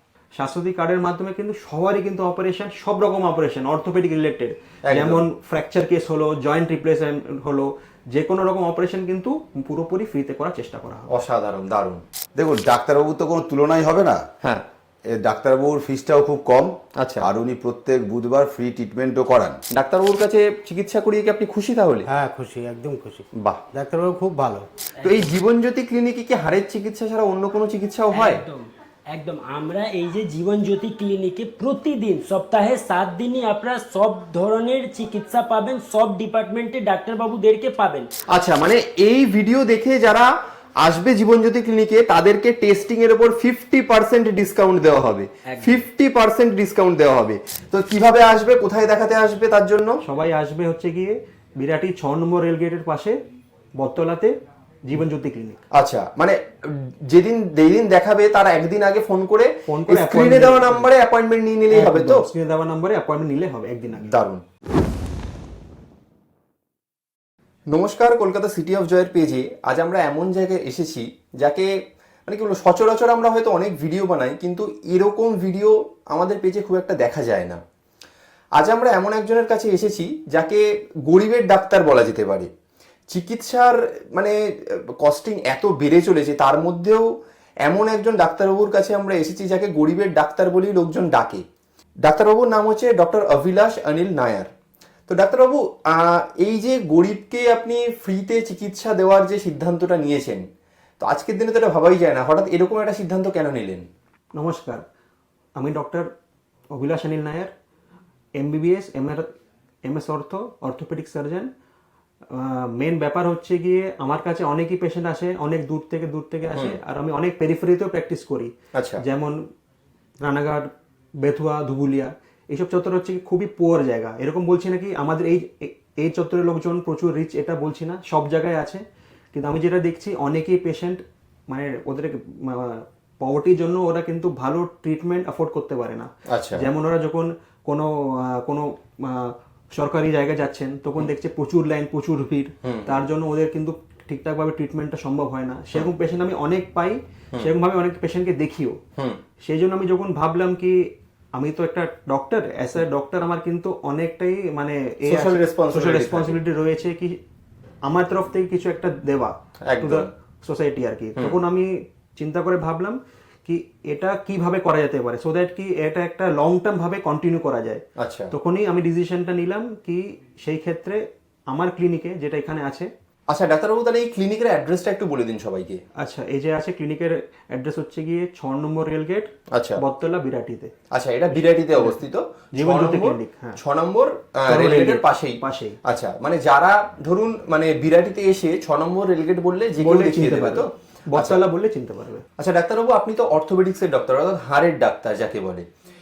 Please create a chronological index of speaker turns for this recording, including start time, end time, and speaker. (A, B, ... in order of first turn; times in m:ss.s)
0:00.4-0:11.1 A
0:04.9-0:05.2 B
0:11.1-0:12.0 B
0:12.4-0:14.2 C
0:15.1-0:19.6 C
0:17.0-0:17.3 B
0:19.7-0:22.1 B
0:22.0-0:24.7 D
0:25.0-0:28.4 B
0:28.1-0:28.6 E
0:29.1-0:38.1 E
0:38.3-0:40.3 B
0:40.8-0:50.0 B
0:50.0-0:53.2 A
0:53.8-0:54.3 A
0:54.9-0:55.6 A
0:55.7-1:02.2 B
0:59.7-1:00.9 A
1:01.7-1:04.2 A
1:04.1-1:04.4 B
1:07.7-1:11.7 B
1:12.3-1:17.6 B
1:18.6-1:22.5 B
1:23.1-1:27.1 B
1:27.7-1:31.4 B
1:32.0-1:34.5 B
1:35.1-1:40.4 B
1:41.0-1:43.9 B
1:44.3-1:44.8 A
1:45.6-1:46.1 A
1:46.7-1:47.5 A
1:48.4-1:49.3 A
1:49.8-1:51.5 A
1:52.3-1:59.4 A
1:58.8-1:59.0 B
2:00.2-2:00.7 A
2:01.2-2:08.8 A
2:09.3-2:28.8 A
2:16.3-2:16.6 B
2:22.6-2:23.0 B
2:29.4-2:37.2 A
2:35.1-2:36.4 B
2:37.8-2:52.9 A
2:39.6-2:40.1 B
2:48.0-2:48.3 B
2:53.3-2:55.8 B
2:56.0-3:00.7 A
2:59.5-2:59.8 B
3:00.9-3:11.4 B
3:01.4-3:02.0 A
3:02.6-3:03.6 A
3:04.5-3:05.8 A
3:09.8-3:12.2 A
3:12.4-3:15.6 B